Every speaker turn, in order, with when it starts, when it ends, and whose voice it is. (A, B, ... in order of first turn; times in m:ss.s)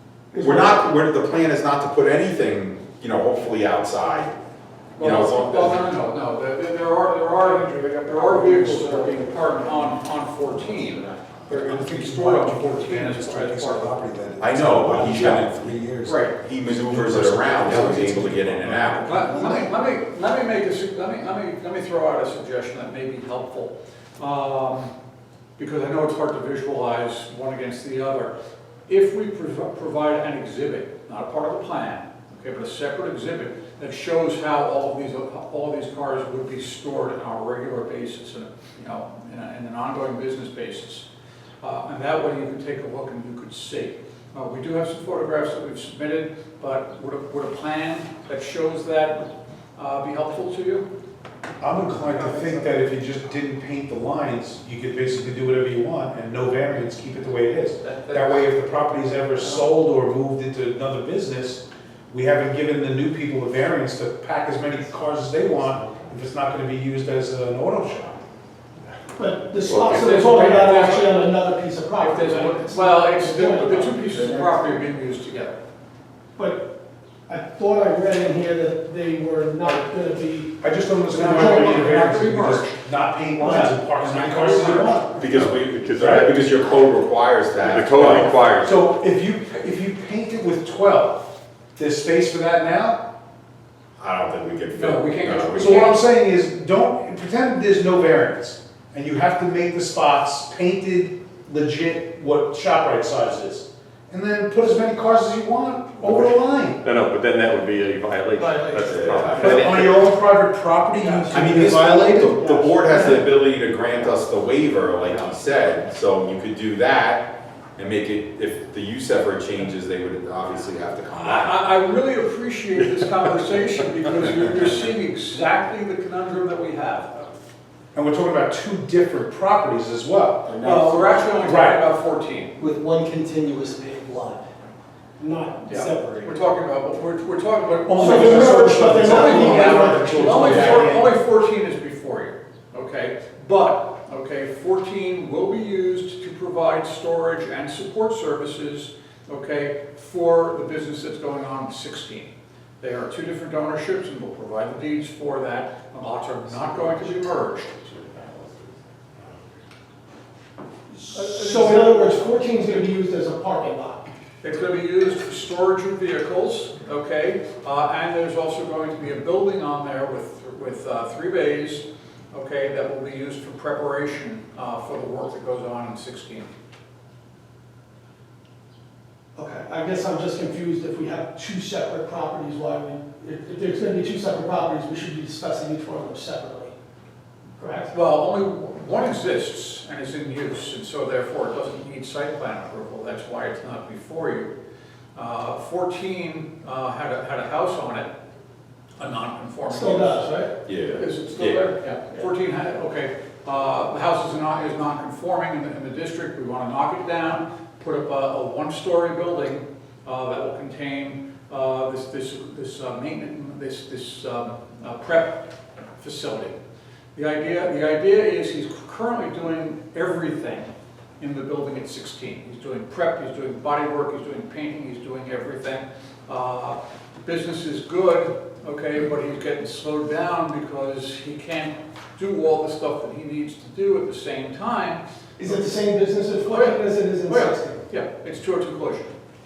0:00.3-0:01.0 A
0:00.4-0:04.3 B
0:05.0-0:14.0 C
0:05.0-0:05.9 B
0:07.7-0:07.9 D
0:08.4-0:08.9 E
0:11.5-0:16.2 E
0:14.4-0:15.8 B
0:16.0-0:16.4 C
0:16.3-0:19.4 B
0:16.7-0:19.6 E
0:19.0-0:24.9 C
0:25.6-0:28.3 C
0:28.9-0:41.1 C
0:41.6-0:50.9 C
0:51.6-1:08.2 E
0:57.8-0:58.5 C
1:09.2-1:13.9 A
1:09.7-1:10.0 D
1:09.9-1:11.2 C
1:12.0-1:15.6 C
1:14.4-1:14.8 F
1:16.4-1:16.7 A
1:17.3-1:20.5 A
1:20.6-1:26.3 E
1:21.1-1:22.8 C
1:21.2-1:21.9 A
1:23.4-1:23.8 A
1:23.4-1:25.3 C
1:25.2-1:28.4 B
1:25.4-1:26.4 D
1:27.7-1:28.7 D
1:28.6-1:33.0 E
1:34.0-1:35.8 B
1:34.7-1:36.0 C
1:35.6-1:46.8 E
1:46.8-1:49.0 D
1:48.4-1:49.9 A
1:48.9-1:49.8 B
1:49.3-1:52.5 E
1:51.0-1:51.8 A
1:51.3-2:01.6 B
1:52.4-1:53.2 A
2:01.1-2:07.3 C
2:07.9-2:10.5 E
2:10.4-2:11.3 F
2:10.6-2:12.5 C
2:11.4-2:11.8 E
2:12.6-2:14.4 F
2:15.2-2:16.4 F
2:15.7-2:38.2 C
2:17.8-2:21.2 E
2:17.9-2:20.8 A
2:40.9-2:44.1 A
2:41.1-2:42.2 C
2:44.4-2:56.5 C
2:59.4-3:06.7 A
3:07.6-3:07.9 A
3:07.9-3:14.5 C
3:15.1-3:18.1 C
3:19.0-3:20.4 C
3:19.7-3:20.5 A
3:20.7-3:21.7 B
3:20.9-3:35.4 C
3:36.0-3:36.6 C
3:37.1-3:55.0 C
3:55.4-3:57.8 A
3:56.4-3:59.1 C